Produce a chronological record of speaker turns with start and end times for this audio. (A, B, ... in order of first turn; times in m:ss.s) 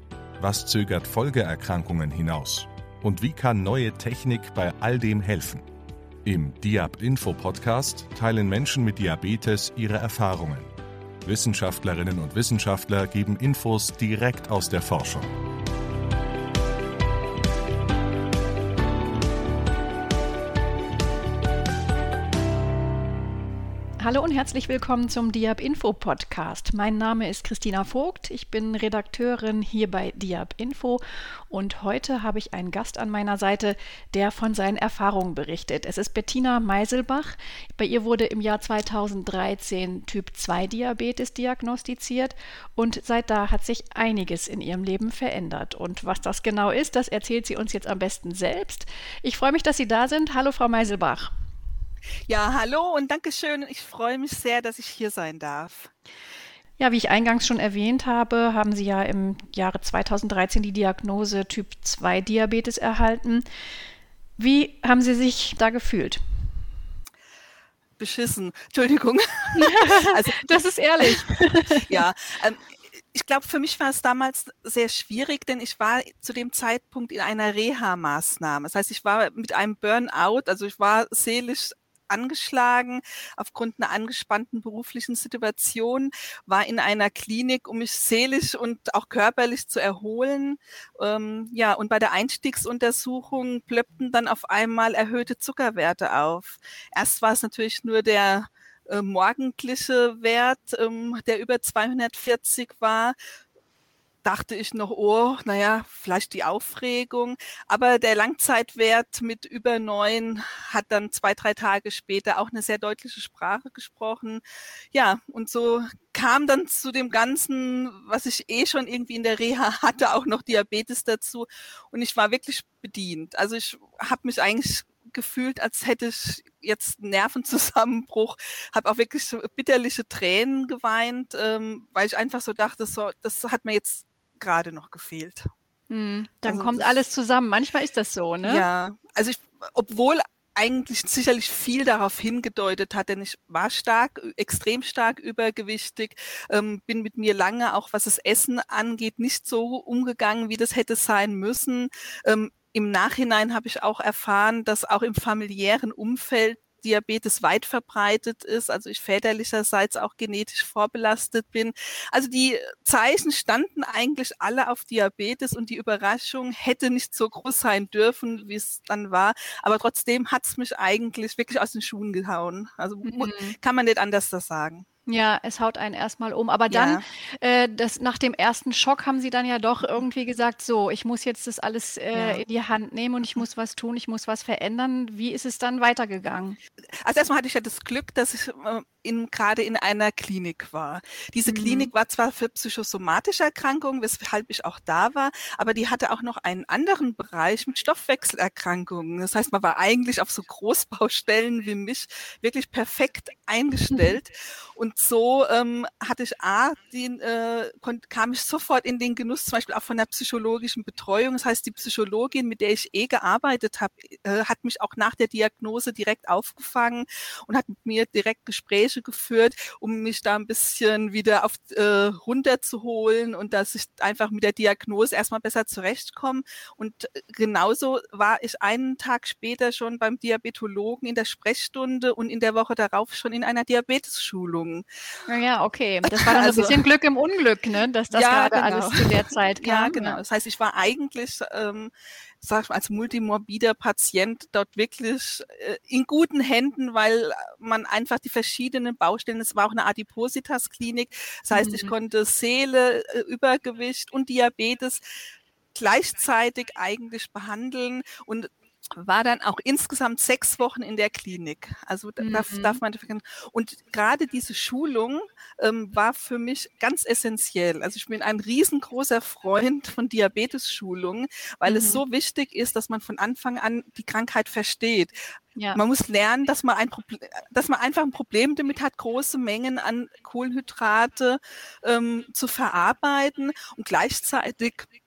0:00.4-0:05.6 A
0:06.2-0:10.7 A
0:11.2-0:15.3 A
0:24.0-0:51.3 B
0:52.3-0:55.9 C
0:56.8-1:03.4 B
1:04.4-1:06.2 B
1:08.0-1:43.2 C
1:09.6-1:12.0 B
1:44.2-2:15.5 C
2:15.9-2:18.6 B
2:16.4-2:17.0 C
2:18.4-2:54.9 C
2:53.0-2:53.6 B
2:55.1-3:06.6 B
2:56.7-2:57.0 C
3:02.1-3:02.4 C
3:07.0-3:54.8 C
3:11.5-3:11.9 B
3:55.3-4:00.2 B
3:56.1-3:56.8 C
3:58.1-4:15.0 C
4:11.5-4:11.9 B
4:15.8-4:35.2 C
4:22.2-4:22.8 B
4:31.7-4:32.0 B
4:35.6-4:35.8 B
4:35.7-4:44.9 C